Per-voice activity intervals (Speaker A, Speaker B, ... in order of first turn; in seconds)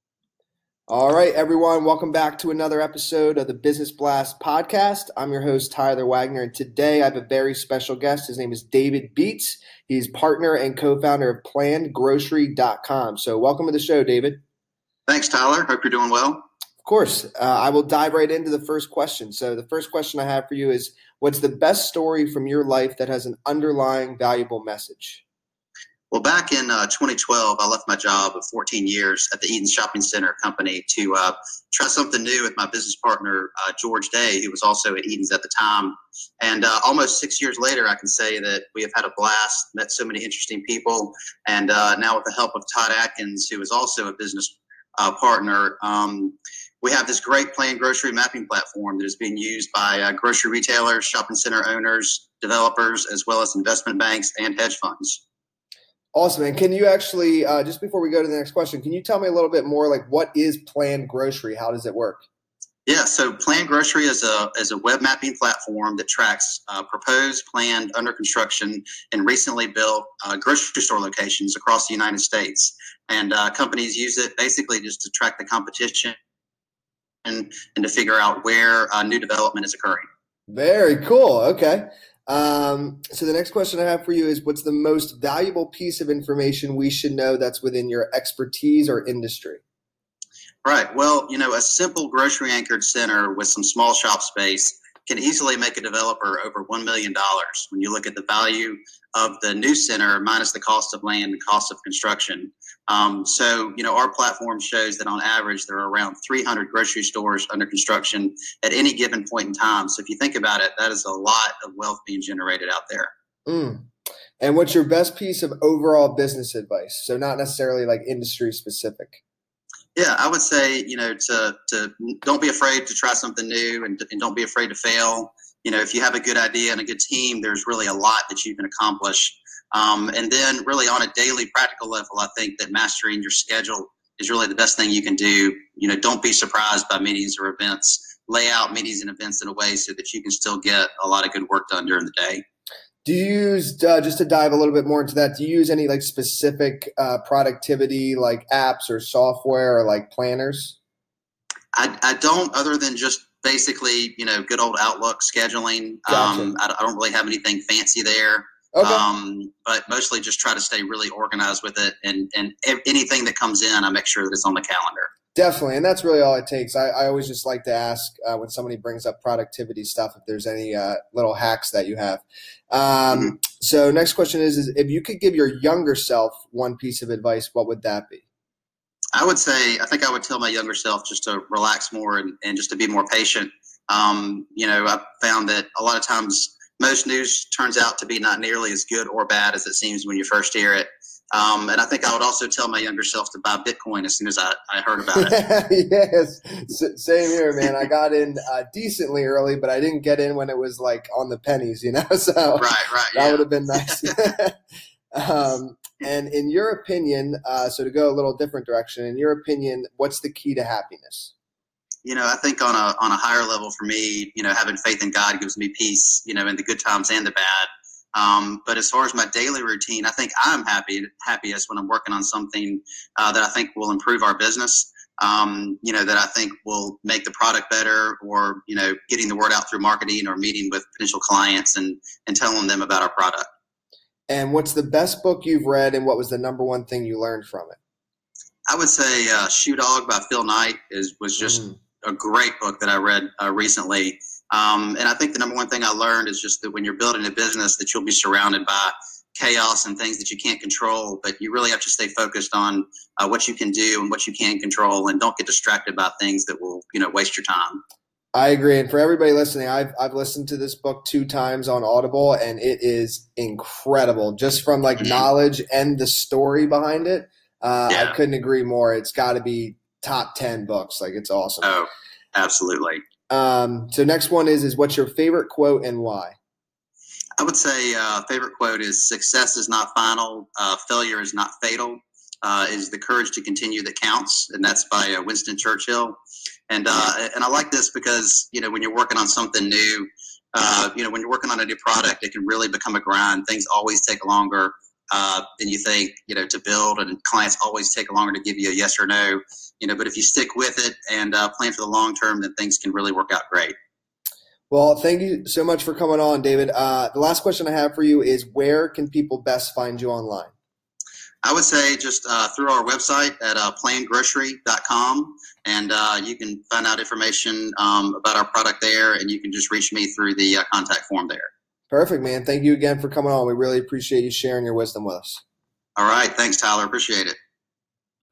Speaker A: 0.9-14.4, 16.8-25.2, 56.1-62.2, 80.5-89.6, 113.5-113.9, 114.4-119.2, 143.0-150.8, 156.1-156.5, 158.7-159.0, 165.3-178.2, 195.1-204.6, 205.1-211.3, 234.3-237.8, 241.4-241.7, 258.3-271.7, 273.3-276.3, 304.7-310.5, 321.9-325.4
Speaker B: 15.1-16.4, 26.1-55.2, 62.9-76.2, 77.2-80.0, 90.6-113.1, 120.0-142.4, 151.7-165.1, 179.1-195.4, 202.6-204.1, 212.0-233.5, 238.7-257.8, 267.9-268.1, 271.6-273.0, 277.4-286.2, 286.7-303.7, 311.4-321.5, 325.9-327.4